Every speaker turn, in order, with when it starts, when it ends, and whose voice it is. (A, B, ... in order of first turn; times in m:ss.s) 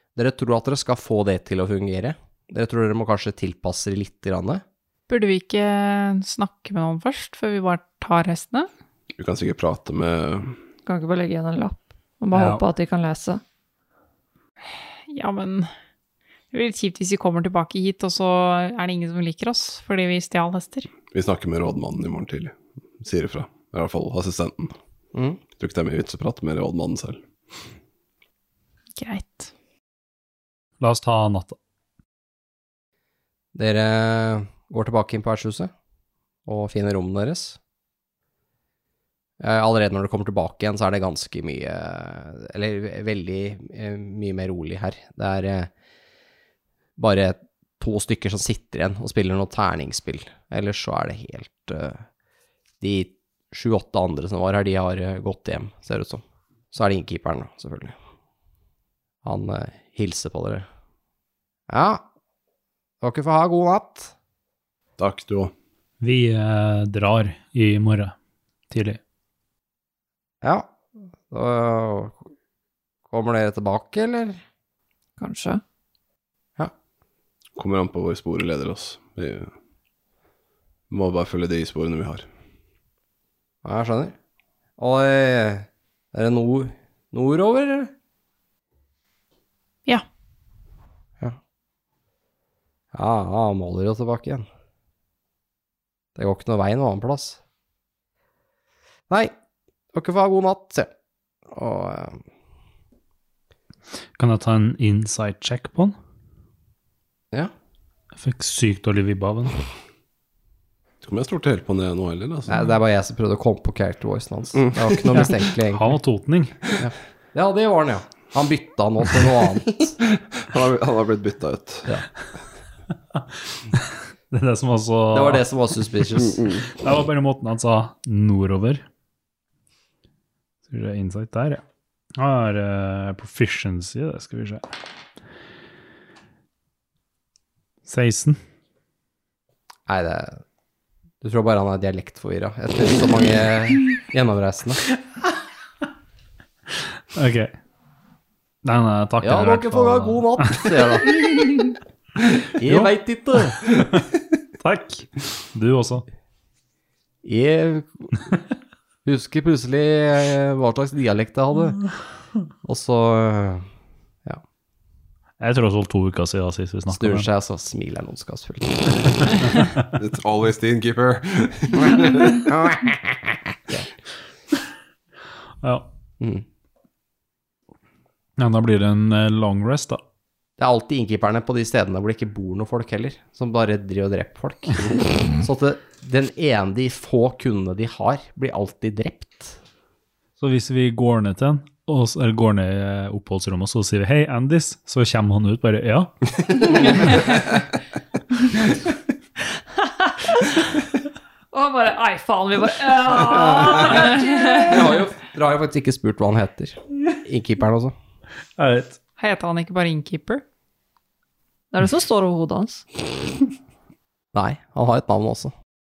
0:00.2-0:04.6 A
0:05.1-0:08.7 B
0:09.1-0:10.6 C
0:10.8-0:13.4 D
0:12.3-0:12.6 E
0:14.7-0:15.7 B
0:16.5-0:20.9 B
0:21.1-0:24.7 C
0:25.1-0:25.4 A
0:25.6-0:27.6 C
0:29.0-0:29.5 B
0:30.8-0:31.6 E
0:33.5-0:35.7 A
0:36.4-0:37.6 A
0:39.4-0:45.7 A
0:47.0-0:52.0 A
0:52.8-0:58.0 A
0:59.2-1:00.6 A
1:01.7-1:02.0 A
1:03.0-1:04.1 A
1:05.0-1:05.5 C
1:06.0-1:08.1 E
1:08.7-1:09.0 E
1:10.4-1:10.7 A
1:11.3-1:12.3 A
1:13.1-1:14.4 A
1:15.2-1:15.6 D
1:17.6-1:19.5 C
1:20.9-1:22.2 C
1:23.6-1:24.1 A
1:24.8-1:27.9 A
1:32.9-1:34.4 A
1:36.2-1:37.4 A
1:39.9-1:40.9 A
1:41.5-1:42.2 A
1:44.2-1:46.0 E
1:48.2-1:49.6 E
1:51.0-1:52.7 C
1:52.5-1:55.9 A
1:54.5-1:55.2 C
1:55.1-1:56.6 E
1:56.8-2:00.0 A
2:00.0-2:01.9 C
2:04.3-2:05.4 E
2:05.1-2:06.4 A
2:06.7-2:08.8 E
2:10.7-2:11.6 E
2:12.2-2:14.6 E
2:17.8-2:18.4 E
2:19.9-2:20.4 A
2:21.2-2:24.8 A
2:27.1-2:27.5 E
2:28.6-2:31.2 E
2:29.2-2:31.4 A
2:32.6-2:33.6 A
2:32.6-2:32.9 E
2:33.6-2:34.1 E
2:34.6-2:36.0 E
2:37.2-2:38.2 A
2:39.0-2:41.8 A
2:42.6-2:43.6 A
2:45.4-2:47.3 E
2:46.9-2:49.3 A
2:50.0-2:52.4 C
2:52.5-2:52.9 A
2:55.6-2:55.9 E
2:58.4-3:00.0 E
3:00.6-3:09.6 A
3:10.4-3:16.3 E
3:19.8-3:20.7 D
3:21.5-3:25.0 D
3:24.6-3:27.9 A
3:28.6-3:29.0 E
3:29.2-3:30.4 B
3:31.7-3:32.8 D
3:34.3-3:35.5 A